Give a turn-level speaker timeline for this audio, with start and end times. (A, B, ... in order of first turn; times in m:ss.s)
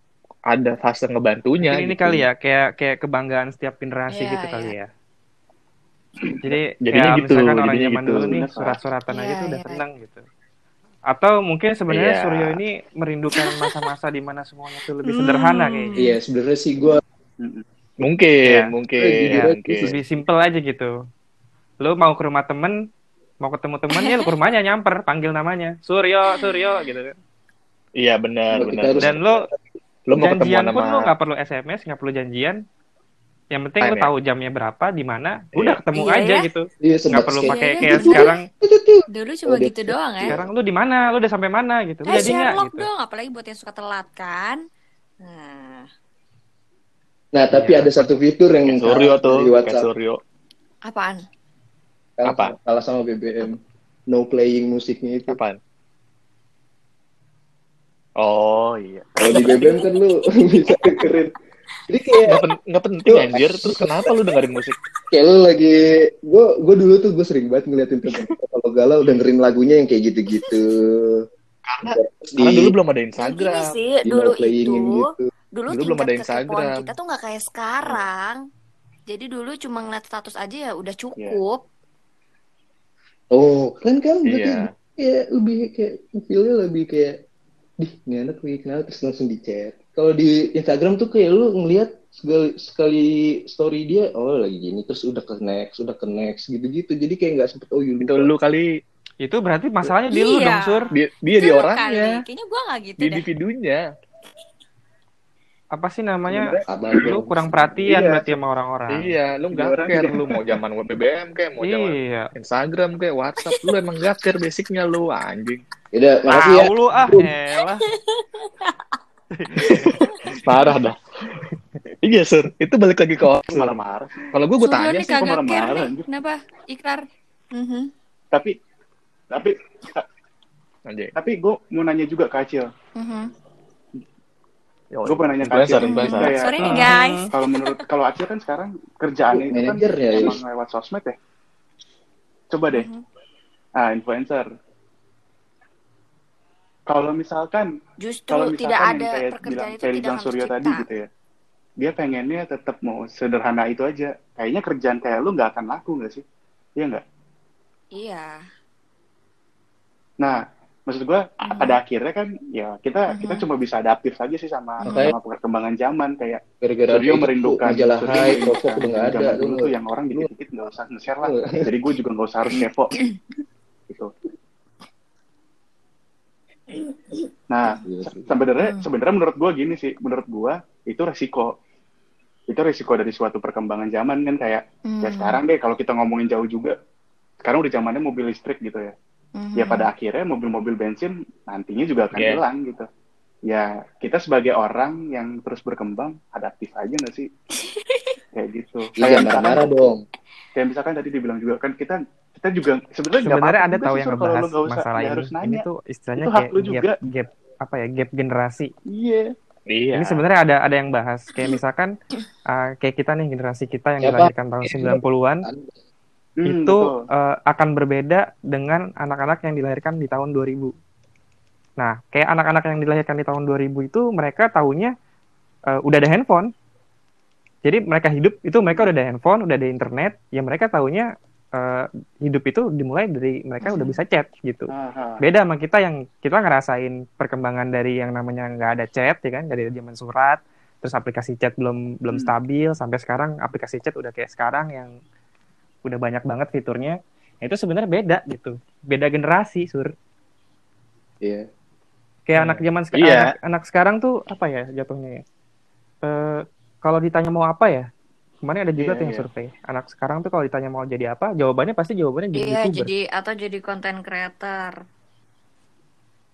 0:00.5-0:02.2 A
0:01.6-0:04.9 B
0:04.1-0:04.7 C
0:06.2-0:06.4 D
0:06.4-0:10.2 B
0:06.8-0:08.3 A
0:08.1-0:08.8 D
0:09.1-0:09.8 C
0:11.1-0:15.9 B
0:11.9-0:12.6 A
0:13.4-0:13.7 C
0:15.1-0:16.1 C
0:16.0-0:17.0 E
0:18.0-0:19.9 A
0:19.0-0:20.0 E
0:19.3-0:20.9 B
0:21.8-0:22.8 B
0:23.4-0:27.2 B
0:24.0-0:24.3 C
0:26.3-0:26.9 C
0:28.0-0:29.1 A
0:28.5-0:29.4 E
0:29.0-0:29.5 B
0:30.1-0:31.1 A
0:30.1-0:32.6 B
0:33.5-0:38.4 B
0:33.8-0:34.1 A
0:35.5-0:35.8 A
0:35.9-0:36.5 C
0:36.8-0:40.4 E
0:37.5-0:38.3 C
0:39.1-0:40.4 C
0:40.2-0:42.9 B
0:42.1-0:44.6 C
0:45.2-0:45.9 C
0:47.3-0:49.8 E
0:47.5-0:48.1 B
0:48.6-0:50.2 A
0:50.9-0:51.2 C
0:52.2-0:53.6 E
0:52.2-0:52.5 A
0:54.1-0:55.4 E
0:55.3-0:55.6 A
0:58.2-0:59.7 A
0:59.2-1:01.3 E
1:01.9-1:02.4 E
1:02.2-1:04.8 A
1:03.0-1:04.1 E
1:05.1-1:11.2 E
1:11.6-1:13.6 A
1:11.8-1:12.7 E
1:13.2-1:18.4 C
1:14.0-1:15.2 E
1:15.7-1:16.8 A
1:19.1-1:21.6 C
1:23.3-1:27.2 E
1:24.3-1:24.7 A
1:27.8-1:38.3 E
1:38.0-1:38.7 A
1:39.2-1:40.9 B
1:40.1-1:43.2 C
1:40.9-1:42.2 A
1:43.0-1:43.8 A
1:45.7-1:49.2 B
1:46.3-1:47.1 D
1:46.7-1:47.8 E
1:47.9-1:48.4 D
1:48.9-1:55.6 A
1:49.5-1:50.4 D
1:51.6-1:52.3 B
1:53.4-1:53.8 C
1:55.9-1:57.3 E
1:56.3-1:57.8 B
1:57.8-1:58.8 C
1:59.3-2:00.3 B
1:59.6-2:00.4 C
1:59.6-2:01.0 A
2:02.0-2:05.4 A
2:03.5-2:04.3 D
2:04.6-2:07.9 C
2:05.1-2:06.0 D
2:09.3-2:10.0 D
2:10.9-2:11.1 A
2:11.2-2:12.7 D
2:13.0-2:13.3 C
2:14.9-2:16.4 A
2:15.0-2:21.2 D
2:15.8-2:17.8 C
2:16.6-2:17.3 B
2:19.3-2:20.4 E
2:22.5-2:22.9 D
2:22.7-2:23.0 C
2:23.8-2:24.5 D
2:26.9-2:27.7 D
2:28.0-2:30.8 C
2:28.3-2:31.1 D
2:31.8-2:36.2 D
2:38.0-2:38.4 C
2:40.2-2:53.0 D
2:41.5-2:41.8 C
2:43.1-2:43.4 C
2:44.8-2:45.2 E
2:44.8-2:45.1 C
2:46.6-2:50.3 E
2:48.1-2:48.4 A
2:51.2-2:51.6 E
2:56.7-2:57.2 C
2:57.5-3:01.5 D
2:57.8-2:58.4 E
2:58.6-2:58.8 C
3:02.5-3:06.7 D
3:04.8-3:05.4 C
3:07.4-3:08.9 D
3:09.4-3:09.9 C
3:09.6-3:12.8 D
3:12.1-3:12.4 A
3:13.5-3:17.3 D
3:17.6-3:18.2 C
3:18.3-3:19.9 D
3:19.0-3:20.0 E
3:20.6-3:25.6 D
3:23.2-3:28.7 B
3:26.2-3:27.0 D
3:28.9-3:29.3 D
3:29.7-3:30.2 A
3:29.9-3:31.9 B
3:32.5-3:35.5 B
3:34.0-3:35.7 E
3:36.4-3:37.0 D
3:36.4-3:40.7 B
3:41.8-3:44.9 B
3:45.7-3:46.5 B
3:47.6-4:04.9 B
3:53.6-3:54.0 C
3:54.7-3:55.2 D
4:05.8-4:09.9 B
4:11.2-4:11.5 E
4:12.3-4:15.2 B
4:12.3-4:13.2 A
4:16.0-4:17.9 B
4:18.4-4:22.9 B
4:18.8-4:19.2 D
4:22.3-4:24.8 C